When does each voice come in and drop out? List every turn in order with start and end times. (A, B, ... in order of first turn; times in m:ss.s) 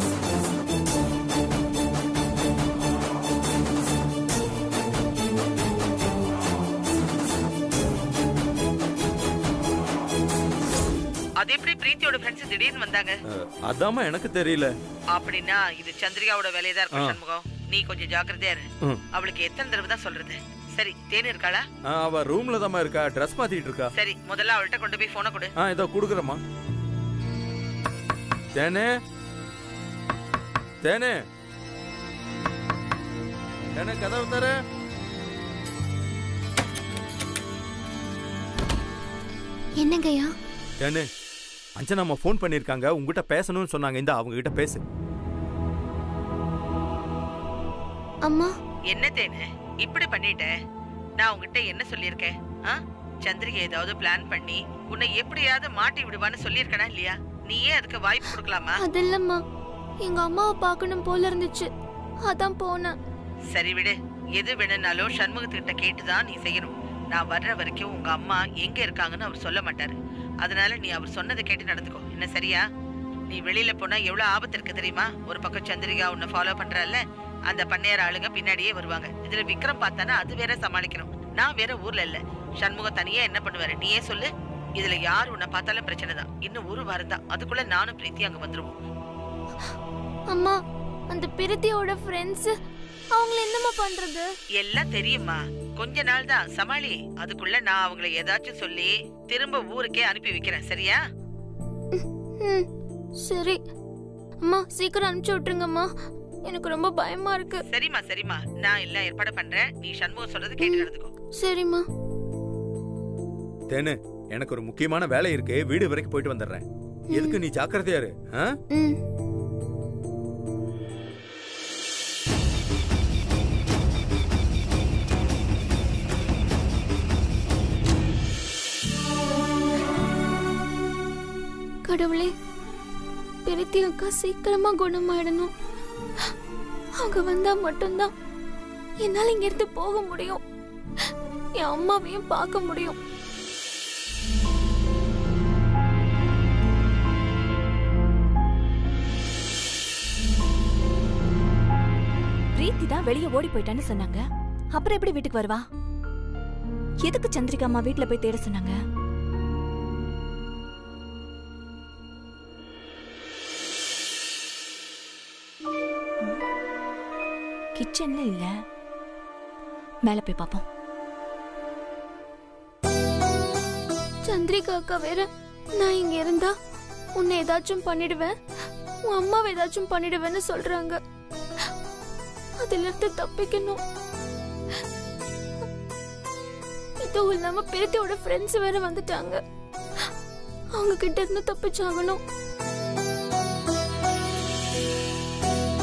0:11.4-0:13.2 A
0:13.3-0:14.7 B
0:15.1-0:21.6 A
0:16.9-0:17.2 B
0:21.9-0:23.9 B
0:24.0-0:25.5 A
0:25.6-0:26.4 B
0:28.6-0:28.9 B
0:30.8-0:31.2 B
0:33.8-0:34.5 B
0:39.8-0:40.2 C
0:40.8-0:41.0 B
0:41.8-0:44.8 B
0:48.9-0:50.5 A
0:51.2-0:58.8 A
0:58.8-0:59.4 C
1:00.0-1:01.7 C
1:02.3-1:02.9 C
1:03.5-1:12.6 A
1:13.3-1:28.7 A
1:30.3-1:30.6 C
1:31.1-1:32.5 C
1:33.2-1:34.2 C
1:34.6-1:41.0 A
1:42.0-1:42.7 C
1:43.2-1:43.6 C
1:44.4-1:45.9 C
1:46.5-1:47.6 C
1:47.7-1:51.1 A
1:50.6-1:51.8 C
1:53.7-1:58.5 B
1:57.1-1:57.4 C
2:11.9-2:12.3 C
2:13.4-2:15.5 C
2:17.0-2:18.1 C
2:19.0-2:20.4 C
2:21.6-2:23.0 C
2:32.6-2:35.6 D
2:37.0-2:38.8 D
2:47.8-2:48.6 D
2:50.0-2:50.6 D
2:54.2-2:56.5 C
2:57.2-2:58.3 C
2:59.1-3:01.0 C
3:02.6-3:03.8 C
3:07.0-3:09.4 C
3:10.8-3:12.2 C